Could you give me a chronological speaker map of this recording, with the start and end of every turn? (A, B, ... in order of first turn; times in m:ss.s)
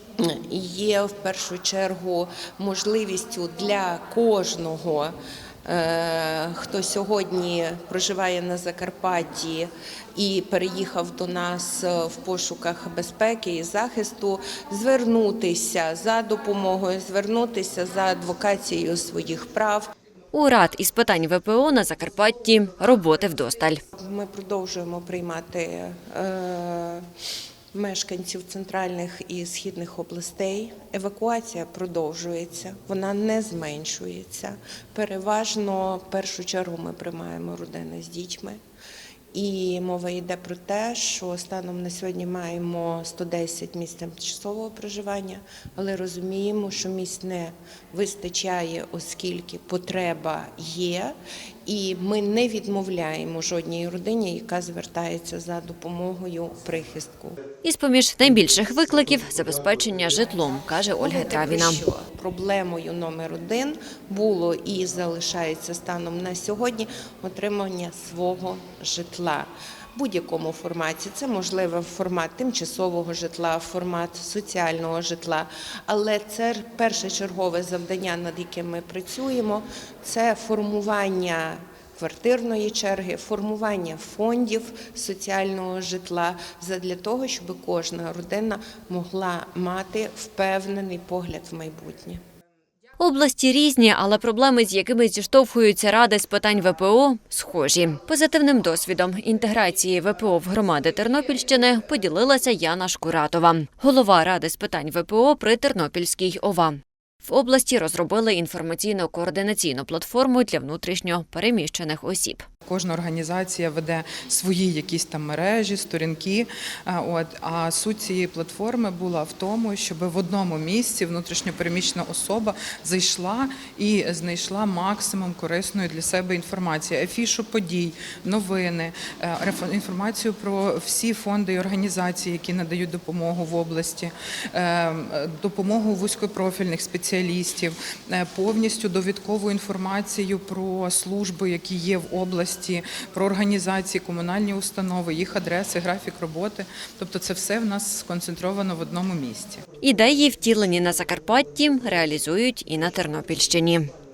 0:00.2-0:19.9 A
0:20.3-0:23.8 B
0:24.0-0:27.0 A
0:27.7-0:38.6 A
0:39.3-0:51.1 A
0:51.6-0:57.4 A
0:57.6-1:01.8 B
1:01.0-1:32.2 A
1:33.0-1:52.4 B
1:52.7-2:29.6 C
2:29.8-2:33.9 B